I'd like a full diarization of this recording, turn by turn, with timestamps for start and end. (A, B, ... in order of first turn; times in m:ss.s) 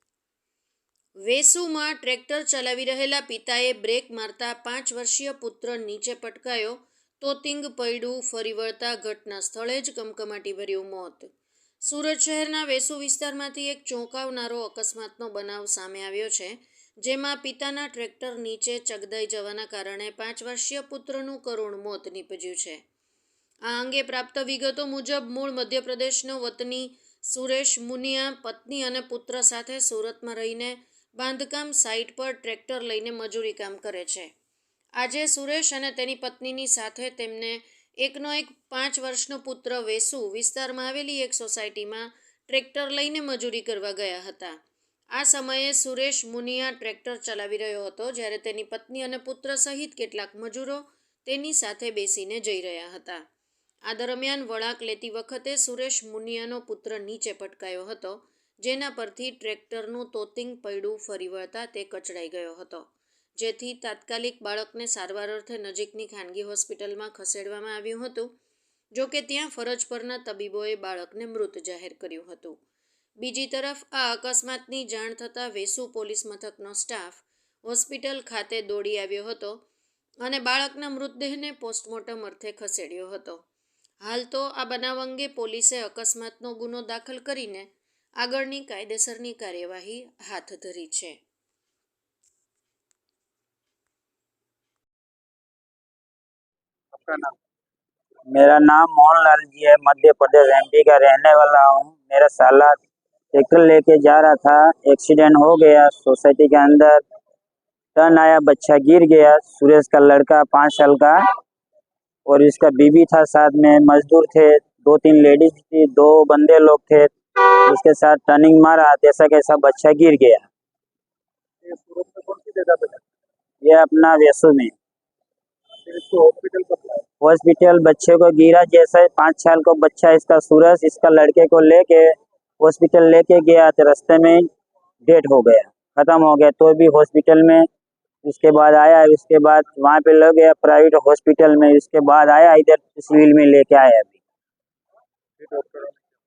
0:01.2-0:11.3 A
0:11.8-0:22.8 A
0:23.6-0:34.3 A
0:35.0-0:44.6 A
0:45.1-0:53.2 A
0:53.9-1:08.3 A
1:08.9-1:12.6 A
1:13.2-1:19.6 A
1:20.2-1:23.4 A
1:24.0-1:31.2 A
1:38.3-1:42.8 B
1:43.3-1:47.0 B
1:48.0-1:51.2 B
1:52.3-1:57.1 B
1:57.6-2:00.4 B
2:01.6-2:03.0 C
2:03.6-2:04.7 B
2:05.9-2:07.0 C
2:07.2-2:14.5 B
2:15.0-2:17.7 B
2:18.2-2:24.2 B
2:25.4-2:25.9 C